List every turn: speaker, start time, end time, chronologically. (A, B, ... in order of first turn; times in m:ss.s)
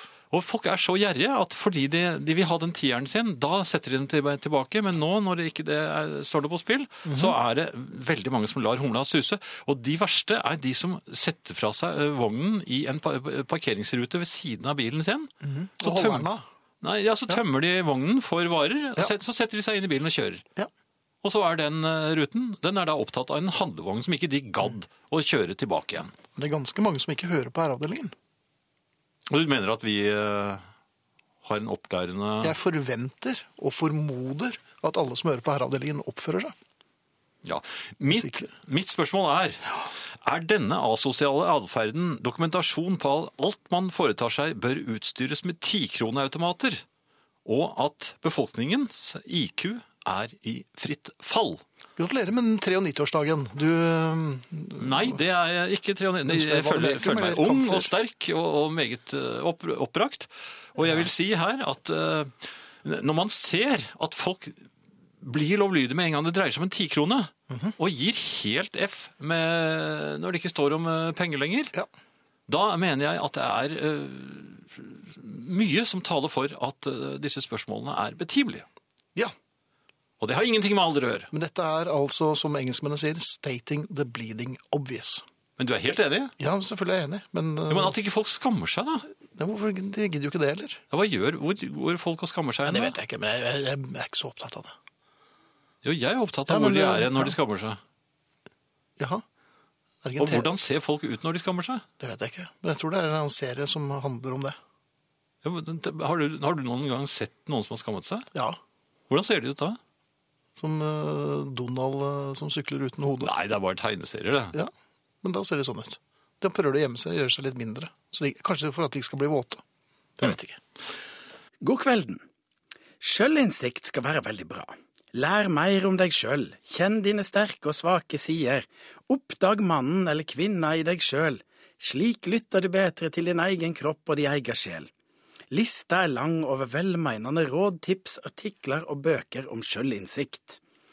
0:00.3-0:16.3 A
0:07.1-0:07.4 B
0:15.4-0:16.4 B
0:16.8-0:20.4 A
0:21.2-0:26.1 A
0:26.4-0:28.1 B
0:29.3-0:30.6 A
0:31.4-0:32.6 A
0:32.4-0:36.6 B
0:37.4-0:46.8 A
0:38.2-0:38.4 B
0:47.4-0:51.6 A
0:52.0-0:55.2 B
0:54.8-1:04.7 A
0:56.3-0:57.9 B
1:00.8-1:01.1 B
1:05.2-1:11.7 A
1:07.5-1:07.8 B
1:12.5-1:18.7 A
1:20.2-1:21.3 A
1:21.3-1:25.2 B
1:25.6-1:26.3 A
1:26.4-1:28.0 B
1:27.7-1:29.1 A
1:29.3-1:30.8 B
1:30.9-1:33.0 A
1:32.6-1:34.7 B
1:35.8-1:37.8 A
1:36.5-1:37.4 B
1:39.0-1:39.2 B
1:40.0-1:40.6 B
1:40.2-1:41.8 A
1:42.0-1:44.6 B
1:45.4-1:48.3 A
1:49.1-1:49.8 A
1:50.6-1:53.3 B
1:53.2-1:54.6 A
1:55.2-1:59.6 B
2:00.2-2:00.6 B
2:01.6-2:02.2 C
2:03.0-2:14.9 C
2:15.5-2:20.6 C